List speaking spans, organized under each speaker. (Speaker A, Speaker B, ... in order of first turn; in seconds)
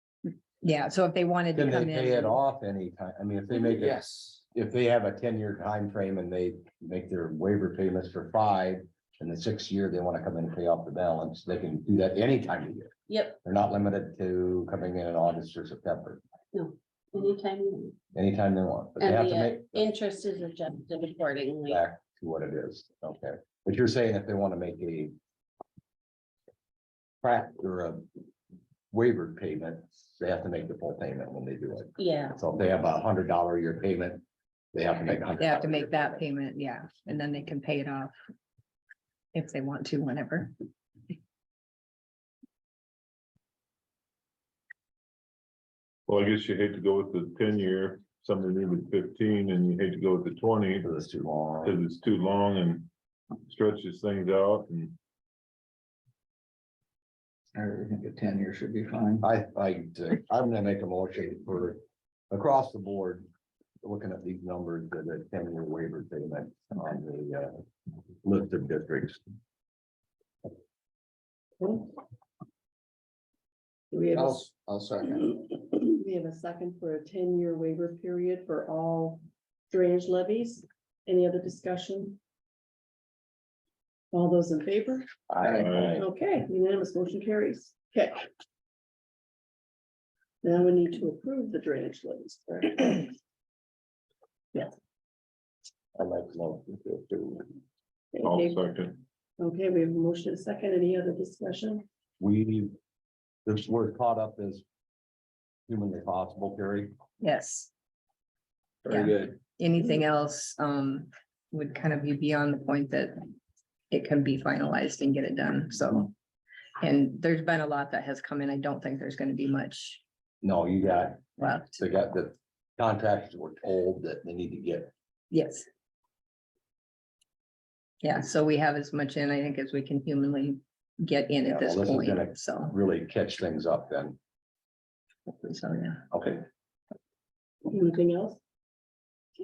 Speaker A: 0.6-2.4, 35.4-38.1, 39.3-40.5, 107.2-107.7, 108.9-113.2, 113.9-116.1, 116.8-120.0, 121.4-121.8, 125.3-125.6, 128.0-132.7, 135.3-136.1
Speaker B: 1.5-16.2, 18.1-19.9, 21.6-25.1, 27.2-28.1, 28.9-36.2, 50.8-51.8, 59.2-63.3, 63.8-67.5, 68.2-69.2, 85.3-86.0, 96.0-97.5, 102.2-102.7, 103.5-104.6, 105.7-106.9, 120.4-124.9, 131.4-134.2, 136.1-136.4
Speaker C: 3.6-4.4, 57.5-59.3, 74.1-75.4, 85.4-85.9, 108.8-109.4
Speaker D: 13.1-13.4, 16.5-17.9, 19.0-21.8, 32.0-32.4
Speaker E: 46.1-50.9, 51.6-52.9, 53.5-55.0, 85.6-86.0, 98.2-99.0
Speaker F: 71.6-71.9, 73.9-74.4, 75.7-82.2, 84.1-85.1, 85.8-88.2, 90.4-93.1, 98.1-98.7, 99.4-101.8, 137.7-138.4